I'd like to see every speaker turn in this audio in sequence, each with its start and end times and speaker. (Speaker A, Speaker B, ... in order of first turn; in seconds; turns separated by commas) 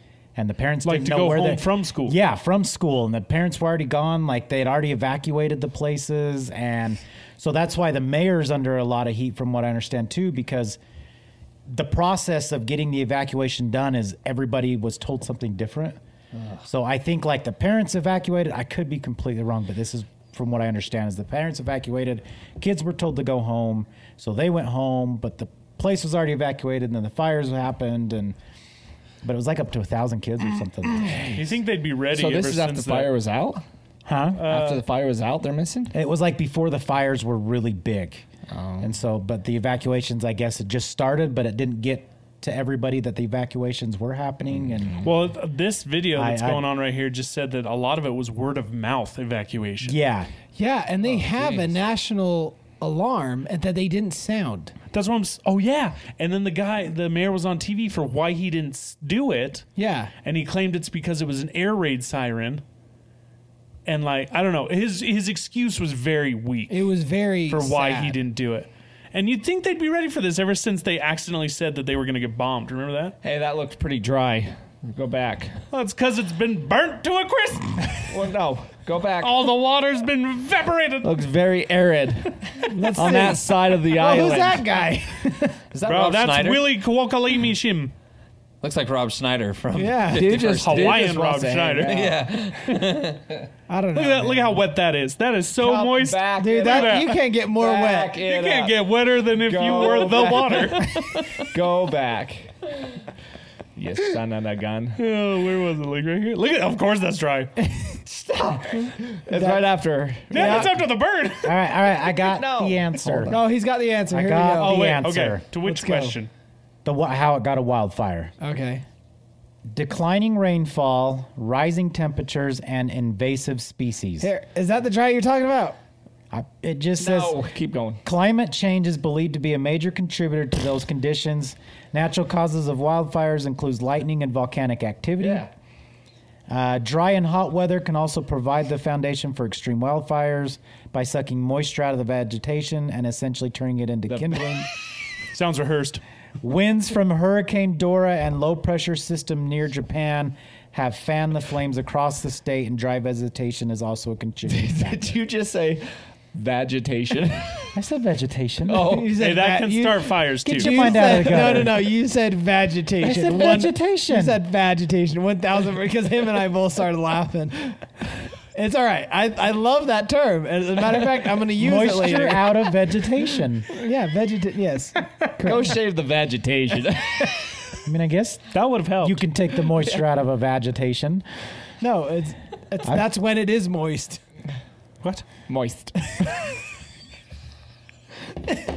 Speaker A: 0.3-10.8, Speaker B: 0.8-2.2, Speaker A: 11.7-16.0, Speaker A: 16.6-28.4, Speaker A: 29.2-31.3, Speaker C: 31.0-31.5, Speaker B: 31.3-33.1, Speaker C: 32.1-33.6, Speaker A: 34.0-34.4, Speaker B: 34.3-34.8, Speaker C: 34.4-35.9, Speaker A: 35.9-38.2, Speaker C: 38.5-38.9, Speaker A: 38.8-45.1, Speaker C: 44.7-45.1, Speaker B: 45.0-50.0, Speaker A: 46.1-46.7, Speaker A: 49.8-50.3, Speaker D: 50.5-54.7, Speaker B: 54.9-59.7, Speaker D: 59.8-60.1, Speaker B: 60.2-62.6, Speaker B: 63.9-66.8, Speaker D: 66.7-68.2, Speaker B: 67.5-73.2, Speaker C: 73.2-75.6, Speaker B: 75.7-78.1, Speaker C: 78.1-79.5, Speaker B: 79.2-81.1, Speaker C: 81.0-84.7, Speaker D: 82.6-85.6, Speaker E: 85.7-86.7, Speaker B: 85.8-87.9, Speaker E: 88.6-91.1, Speaker D: 89.7-90.4, Speaker C: 90.1-92.3, Speaker B: 90.6-92.1, Speaker E: 91.9-93.5, Speaker D: 93.7-94.6, Speaker B: 93.9-97.2, Speaker C: 95.6-102.8, Speaker D: 96.4-98.2, Speaker B: 98.2-101.0, Speaker E: 100.9-101.5, Speaker C: 103.8-105.0, Speaker B: 105.0-107.6, Speaker D: 107.8-109.6, Speaker C: 108.4-110.8, Speaker D: 110.3-110.7, Speaker B: 110.3-111.6, Speaker A: 111.4-113.3, Speaker C: 112.1-113.4, Speaker D: 113.3-114.9, Speaker A: 114.1-115.5, Speaker B: 114.6-116.3, Speaker D: 115.6-116.2, Speaker A: 116.8-118.3, Speaker D: 118.4-118.8, Speaker A: 119.7-124.3, Speaker D: 124.2-125.8, Speaker A: 126.3-127.4, Speaker C: 127.0-128.0, Speaker A: 128.0-135.5, Speaker C: 135.2-135.5, Speaker A: 136.5-144.7, Speaker C: 144.1-144.6, Speaker B: 145.3-146.0, Speaker A: 146.4-155.2, Speaker C: 154.5-157.8, Speaker A: 157.7-159.0, Speaker C: 158.7-159.2, Speaker D: 158.7-167.8, Speaker B: 159.2-161.0, Speaker A: 160.4-161.8, Speaker A: 163.0-164.4, Speaker D: 168.5-172.7, Speaker A: 171.5-173.7, Speaker D: 173.7-175.7, Speaker C: 175.4-177.8, Speaker A: 177.8-178.5, Speaker B: 178.5-179.2, Speaker A: 179.0-181.2, Speaker C: 179.8-180.0, Speaker D: 181.8-184.2, Speaker C: 185.5-186.4